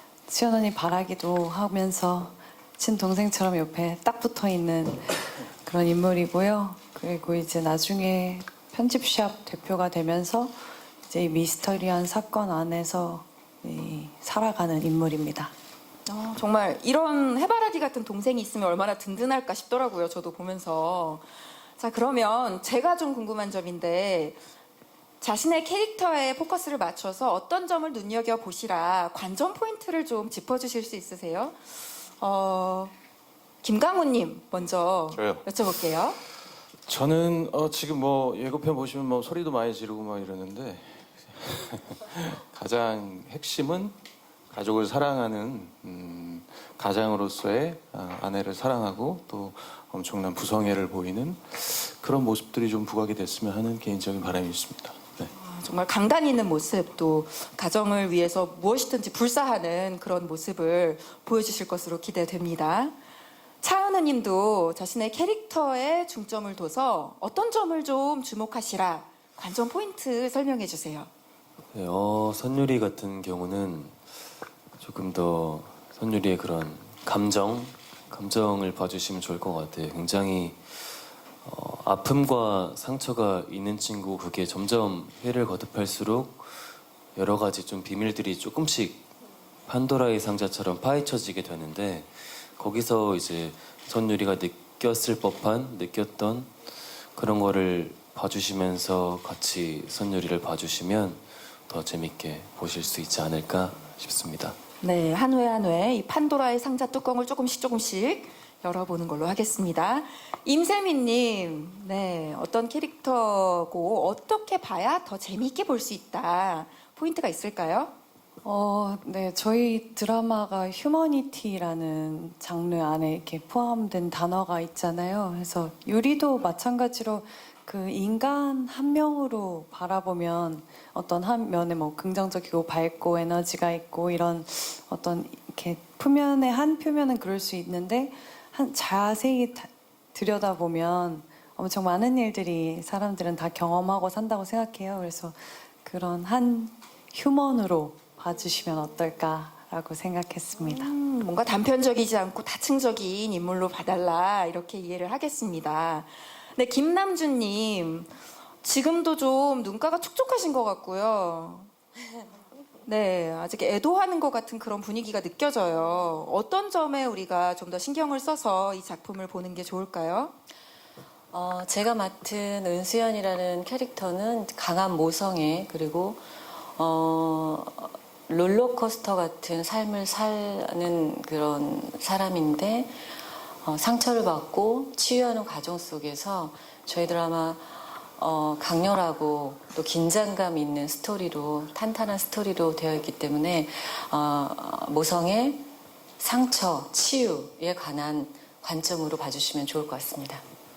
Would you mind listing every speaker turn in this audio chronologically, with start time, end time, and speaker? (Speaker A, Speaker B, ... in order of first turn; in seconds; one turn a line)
Speaker A: 0.3-15.5
Speaker B: 16.1-24.4
Speaker B: 25.2-32.9
Speaker B: 33.6-36.2
Speaker C: 35.1-35.4
Speaker C: 36.9-44.0
Speaker C: 44.5-55.3
Speaker B: 55.4-63.0
Speaker B: 63.6-71.1
Speaker D: 71.7-74.0
Speaker D: 74.8-89.1
Speaker D: 89.7-96.5
Speaker D: 97.1-104.6
Speaker B: 104.8-117.9
Speaker A: 118.4-150.9
Speaker B: 150.6-161.7
Speaker B: 162.8-170.3
Speaker E: 171.3-200.4